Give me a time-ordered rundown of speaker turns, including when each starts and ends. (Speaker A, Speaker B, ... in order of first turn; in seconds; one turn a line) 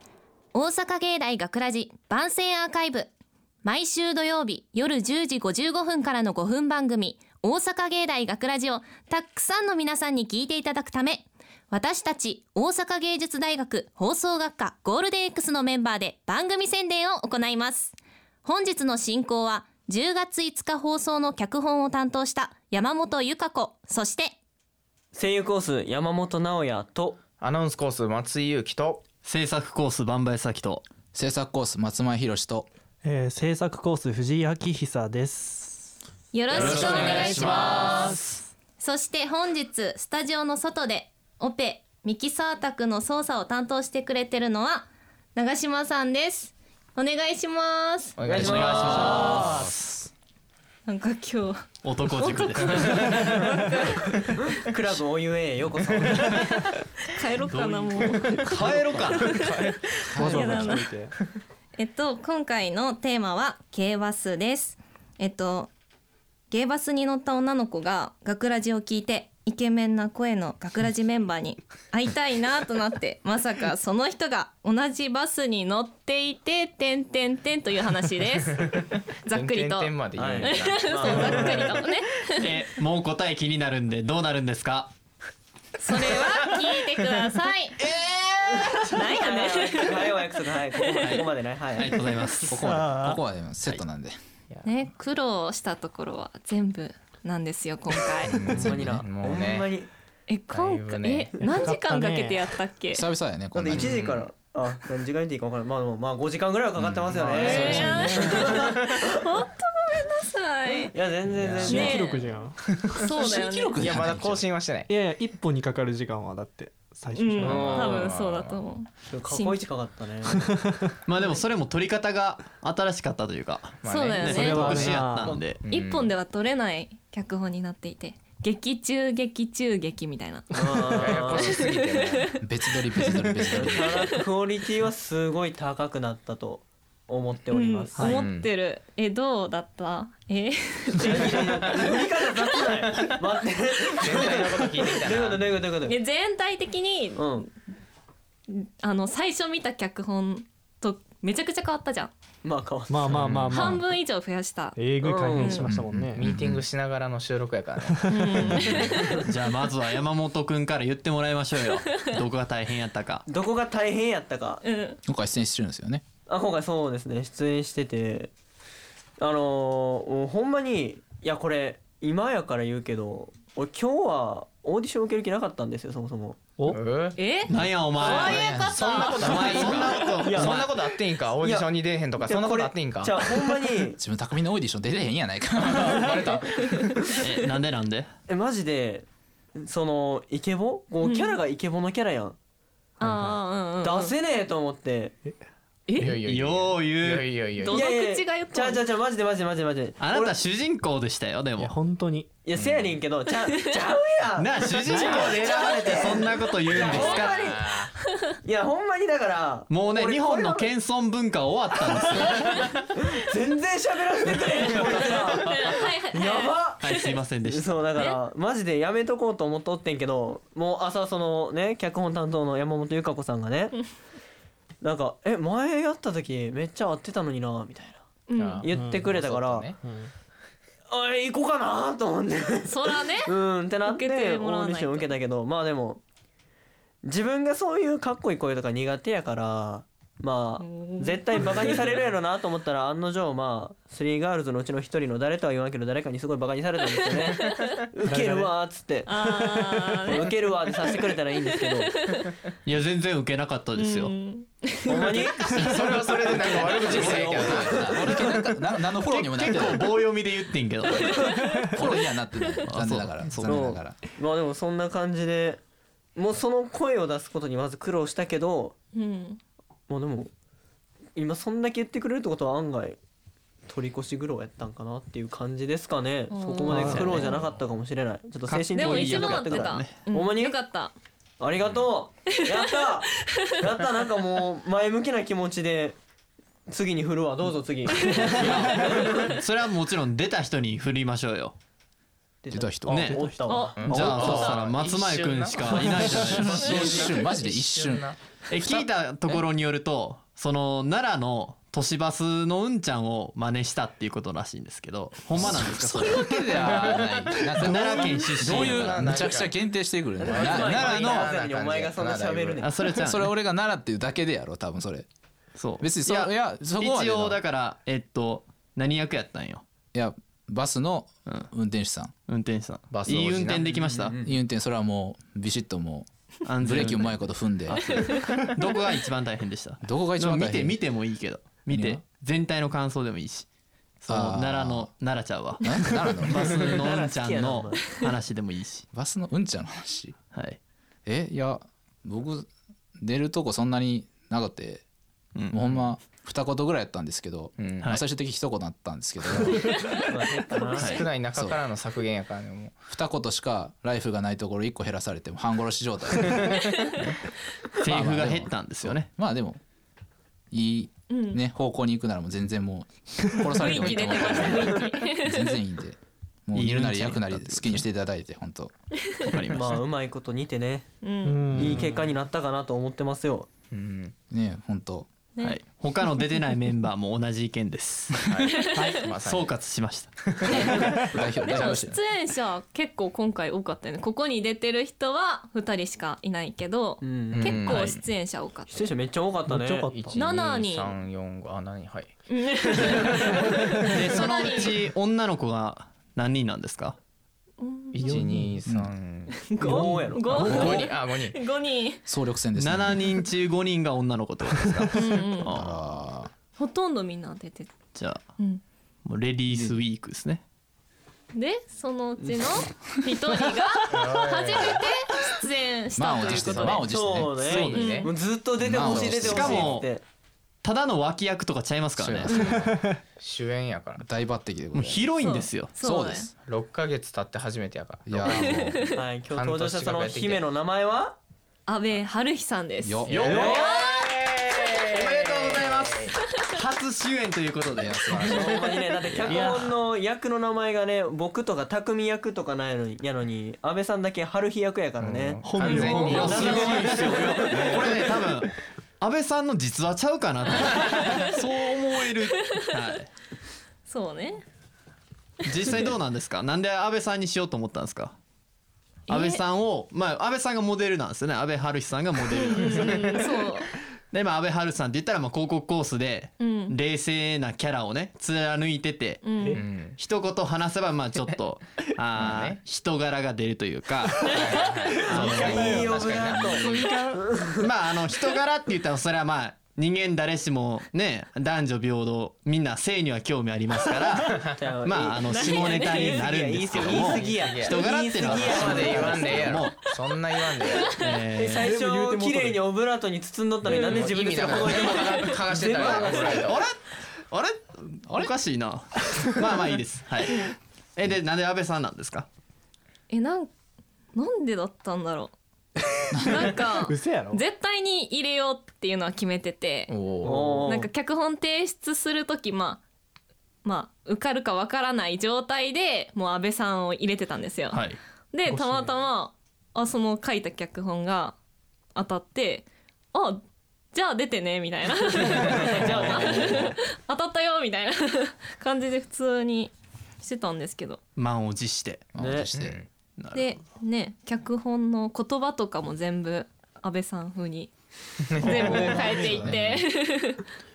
Speaker A: 0.5-3.1
Speaker A: 3.6-24.3
Speaker B: 25.1-27.2
Speaker C: 27.4-29.0
Speaker D: 29.2-30.8
Speaker E: 31.1-32.7
Speaker F: 33.0-35.9
Speaker A: 36.3-38.2
Speaker D: 36.5-38.4
Speaker C: 36.5-37.8
Speaker E: 36.6-37.6
Speaker A: 38.8-48.1
Speaker C: 48.2-49.1
Speaker B: 48.2-49.6
Speaker E: 48.3-49.9
Speaker D: 48.4-49.7
Speaker A: 50.9-54.6
Speaker D: 51.8-53.0
Speaker B: 54.5-56.5
Speaker A: 56.2-60.9
Speaker D: 57.5-59.4
Speaker F: 60.0-61.1
Speaker E: 60.2-60.8
Speaker A: 61.7-65.7
Speaker A: 66.5-82.5
Speaker C: 79.3-81.7
Speaker B: 80.2-81.8
Speaker D: 82.4-84.9
Speaker A: 85.8-87.8
Speaker D: 87.8-88.8
Speaker B: 88.5-92.3
Speaker A: 88.9-90.2
Speaker A: 90.8-91.1
Speaker D: 91.0-92.6
Speaker E: 92.5-94.2
Speaker F: 92.6-93.2
Speaker C: 94.5-94.8
Speaker A: 94.6-98.4
Speaker C: 98.2-99.7
Speaker B: 98.5-99.9
Speaker E: 98.6-99.0
Speaker A: 100.3-103.0
Speaker C: 100.5-101.3
Speaker F: 101.4-102.4
Speaker E: 102.9-104.3
Speaker B: 103.5-109.2
Speaker E: 106.8-108.3
Speaker F: 107.2-108.5
Speaker C: 107.2-107.8
Speaker A: 107.4-111.0
Speaker B: 110.7-111.8
Speaker E: 111.3-112.0
Speaker F: 111.6-112.6
Speaker A: 111.7-113.8
Speaker E: 113.1-114.4
Speaker C: 113.8-114.9
Speaker F: 114.9-118.0
Speaker A: 117.1-119.6
Speaker C: 117.4-118.6
Speaker B: 117.6-118.1
Speaker B: 119.1-120.4
Speaker F: 120.2-120.9
Speaker D: 121.0-125.6
Speaker C: 123.8-126.1
Speaker A: 123.8-124.8
Speaker F: 124.3-125.6
Speaker B: 125.0-125.2
Speaker A: 125.7-132.4
Speaker B: 130.5-131.5
Speaker C: 130.9-132.3
Speaker E: 132.4-134.0
Speaker A: 133.0-134.1
Speaker B: 133.5-138.2
Speaker A: 137.5-141.9
Speaker C: 138.0-138.5
Speaker B: 141.0-146.0
Speaker C: 141.2-143.2
Speaker C: 143.9-145.5
Speaker A: 145.8-147.5
Speaker B: 147.2-147.5
Speaker A: 148.5-152.1
Speaker B: 152.4-152.9
Speaker F: 152.9-153.8
Speaker E: 153.1-153.5
Speaker A: 153.5-154.8
Speaker F: 154.7-156.2
Speaker B: 155.0-155.5
Speaker A: 155.3-155.7
Speaker E: 155.5-156.6
Speaker C: 156.2-158.9
Speaker F: 157.9-158.2
Speaker A: 158.1-159.2
Speaker D: 159.2-163.2
Speaker B: 163.3-164.6
Speaker A: 164.6-165.0
Speaker E: 165.0-166.0
Speaker B: 166.3-168.3
Speaker B: 169.2-176.5
Speaker C: 176.7-177.2
Speaker A: 177.2-180.2
Speaker D: 177.5-180.9
Speaker C: 178.0-183.4
Speaker B: 180.2-180.6
Speaker B: 181.4-184.0
Speaker E: 183.9-186.2
Speaker C: 185.6-187.0
Speaker D: 187.2-188.1
Speaker B: 188.3-192.3
Speaker A: 191.0-191.4
Speaker A: 193.0-194.1
Speaker F: 193.0-193.4
Speaker B: 193.8-195.2
Speaker F: 195.9-196.2
Speaker C: 196.0-197.8
Speaker D: 196.2-197.2
Speaker A: 197.6-198.8
Speaker B: 197.8-200.4
Speaker D: 200.0-201.7
Speaker F: 201.6-202.3
Speaker B: 202.4-207.9
Speaker C: 202.6-202.8
Speaker D: 204.4-207.5
Speaker F: 204.9-205.6
Speaker C: 205.3-205.8
Speaker C: 206.5-207.9
Speaker B: 208.4-210.7
Speaker D: 209.7-212.6
Speaker B: 212.9-223.8
Speaker A: 214.8-217.1
Speaker D: 216.8-217.8
Speaker B: 224.8-228.0
Speaker A: 228.3-228.7
Speaker C: 228.3-229.8
Speaker B: 228.6-229.7
Speaker F: 228.7-230.1
Speaker B: 230.9-236.0
Speaker A: 232.6-235.1
Speaker B: 237.0-249.1
Speaker A: 240.6-241.9
Speaker F: 248.0-248.5
Speaker A: 249.1-252.3
Speaker F: 249.2-250.1
Speaker B: 250.1-252.1
Speaker D: 252.6-254.2
Speaker A: 253.8-255.7
Speaker B: 254.8-255.8
Speaker C: 255.5-258.1
Speaker D: 255.9-257.9
Speaker B: 256.5-258.4
Speaker E: 256.9-259.9
Speaker D: 259.0-261.8
Speaker A: 261.3-261.8
Speaker E: 261.4-264.0
Speaker D: 262.6-263.5
Speaker B: 263.4-265.6
Speaker B: 266.1-268.7
Speaker A: 268.9-269.4
Speaker B: 269.9-270.3
Speaker B: 271.1-273.0
Speaker B: 273.6-280.6
Speaker A: 276.3-277.4
Speaker F: 276.6-277.5
Speaker D: 276.8-277.3
Speaker D: 278.5-279.9
Speaker A: 278.7-280.9
Speaker B: 281.4-286.0
Speaker B: 286.7-289.4
Speaker A: 287.9-289.3
Speaker D: 288.4-291.6
Speaker E: 288.4-288.8
Speaker B: 292.4-294.6
Speaker E: 292.5-293.3
Speaker D: 292.9-293.2
Speaker A: 293.5-293.8
Speaker C: 293.7-298.8
Speaker D: 293.8-297.1
Speaker E: 293.9-294.6
Speaker B: 295.6-295.9
Speaker E: 296.4-298.1
Speaker D: 298.5-306.9
Speaker E: 305.4-311.4
Speaker C: 306.6-309.5
Speaker D: 307.6-309.2
Speaker B: 310.2-312.9
Speaker C: 310.2-312.6
Speaker D: 312.6-313.3
Speaker E: 312.9-315.1
Speaker D: 315.5-319.6
Speaker E: 315.8-317.4
Speaker E: 319.9-322.1
Speaker D: 322.3-324.2
Speaker C: 322.9-323.7
Speaker B: 323.6-324.4
Speaker E: 324.2-328.1
Speaker D: 326.4-333.5
Speaker E: 329.8-330.8
Speaker E: 331.7-332.0
Speaker D: 334.0-338.9
Speaker E: 334.1-334.9
Speaker E: 335.6-336.8
Speaker B: 336.5-338.1
Speaker E: 338.9-340.1
Speaker D: 340.3-340.6
Speaker E: 341.1-342.5
Speaker E: 343.0-344.8
Speaker E: 345.5-349.8
Speaker C: 347.6-347.9
Speaker A: 349.6-350.1
Speaker B: 350.1-351.0
Speaker D: 350.8-351.0
Speaker C: 350.8-352.8
Speaker E: 351.3-351.6
Speaker E: 352.9-356.8
Speaker D: 357.7-359.1
Speaker E: 357.8-359.6
Speaker E: 360.5-368.7
Speaker A: 361.1-361.4
Speaker A: 363.6-365.6
Speaker D: 366.5-367.9
Speaker D: 369.2-369.8
Speaker B: 369.5-370.9
Speaker A: 371.0-371.5
Speaker F: 371.2-372.1
Speaker E: 371.5-371.9
Speaker B: 371.5-373.5
Speaker C: 373.7-374.1
Speaker E: 374.3-375.1
Speaker D: 375.4-378.2
Speaker C: 378.2-379.6
Speaker A: 378.5-378.9
Speaker F: 378.6-379.1
Speaker D: 379.2-380.6
Speaker C: 380.2-380.9
Speaker E: 380.4-382.0
Speaker A: 380.5-380.9
Speaker A: 381.4-388.9
Speaker B: 387.0-387.7
Speaker C: 387.3-387.9
Speaker D: 387.7-388.0
Speaker B: 388.7-389.9
Speaker F: 389.4-390.2
Speaker C: 389.8-393.5
Speaker A: 390.1-390.9
Speaker A: 392.3-394.8
Speaker B: 393.0-393.4
Speaker D: 393.9-397.0
Speaker A: 397.6-398.2
Speaker C: 397.9-399.5
Speaker F: 397.9-398.6
Speaker A: 399.5-402.0
Speaker B: 399.5-400.8
Speaker F: 399.6-400.4
Speaker E: 400.3-400.9
Speaker C: 400.3-401.4
Speaker E: 402.1-403.1
Speaker D: 402.6-405.8
Speaker A: 404.9-405.5
Speaker E: 405.5-406.3
Speaker A: 406.6-407.7
Speaker D: 407.9-408.2
Speaker D: 409.0-410.4
Speaker B: 409.5-409.8
Speaker A: 411.3-416.9
Speaker C: 413.9-414.8
Speaker E: 415.9-417.8
Speaker C: 416.2-416.9
Speaker B: 416.9-420.0
Speaker D: 417.4-417.9
Speaker C: 417.6-418.1
Speaker A: 417.7-418.1
Speaker E: 418.6-419.7
Speaker C: 418.8-419.8
Speaker D: 419.2-419.9
Speaker D: 420.6-422.3
Speaker E: 422.0-422.8
Speaker A: 422.3-422.5
Speaker C: 423.2-424.1
Speaker E: 424.0-425.1
Speaker D: 424.7-425.7
Speaker A: 425.2-426.3
Speaker E: 425.8-426.3
Speaker C: 426.4-430.4
Speaker E: 428.0-428.9
Speaker A: 428.3-429.0
Speaker B: 428.9-431.2
Speaker A: 431.7-433.0
Speaker E: 432.8-433.4
Speaker C: 433.1-436.1
Speaker D: 433.1-434.1
Speaker B: 433.3-433.7
Speaker D: 434.9-438.5
Speaker E: 437.7-438.6
Speaker B: 438.3-445.4
Speaker D: 439.0-439.6
Speaker F: 439.2-439.7
Speaker C: 445.0-447.9
Speaker F: 445.4-447.9
Speaker D: 445.6-453.1
Speaker B: 446.2-447.5
Speaker E: 446.3-446.6
Speaker A: 453.9-454.4
Speaker D: 455.4-458.1
Speaker A: 459.1-459.4
Speaker D: 459.1-463.2
Speaker A: 462.5-463.7
Speaker D: 464.1-469.2
Speaker A: 466.4-466.7
Speaker A: 469.2-469.6
Speaker C: 469.5-470.0
Speaker D: 470.0-475.9
Speaker C: 472.1-472.6
Speaker C: 474.3-476.8
Speaker A: 474.4-474.7
Speaker B: 474.9-477.7
Speaker F: 475.1-477.2
Speaker E: 475.4-476.7
Speaker D: 477.6-489.8
Speaker C: 484.1-484.6
Speaker B: 484.6-489.3
Speaker A: 485.2-486.2
Speaker C: 487.0-487.9
Speaker C: 488.6-490.9
Speaker A: 490.6-491.0
Speaker D: 490.9-491.8
Speaker B: 491.3-496.3
Speaker F: 491.6-492.6
Speaker C: 493.7-496.6
Speaker A: 493.7-494.0
Speaker A: 494.9-495.4
Speaker D: 495.7-502.3
Speaker E: 498.1-498.3
Speaker A: 503.1-503.5
Speaker A: 504.1-505.3
Speaker A: 506.1-509.9
Speaker F: 506.8-507.4
Speaker C: 509.9-510.8
Speaker B: 510.2-510.9
Speaker A: 510.6-512.8
Speaker A: 513.6-521.4
Speaker D: 517.7-518.0
Speaker F: 518.5-519.0
Speaker A: 521.9-523.4
Speaker A: 523.9-531.0
Speaker B: 525.6-526.7
Speaker E: 525.8-526.2
Speaker D: 531.1-532.1
Speaker E: 532.1-532.8
Speaker B: 532.1-532.5
Speaker C: 532.5-532.9
Speaker D: 533.2-533.5
Speaker A: 533.3-537.7
Speaker A: 538.3-540.4
Speaker C: 538.4-539.6
Speaker E: 539.1-539.8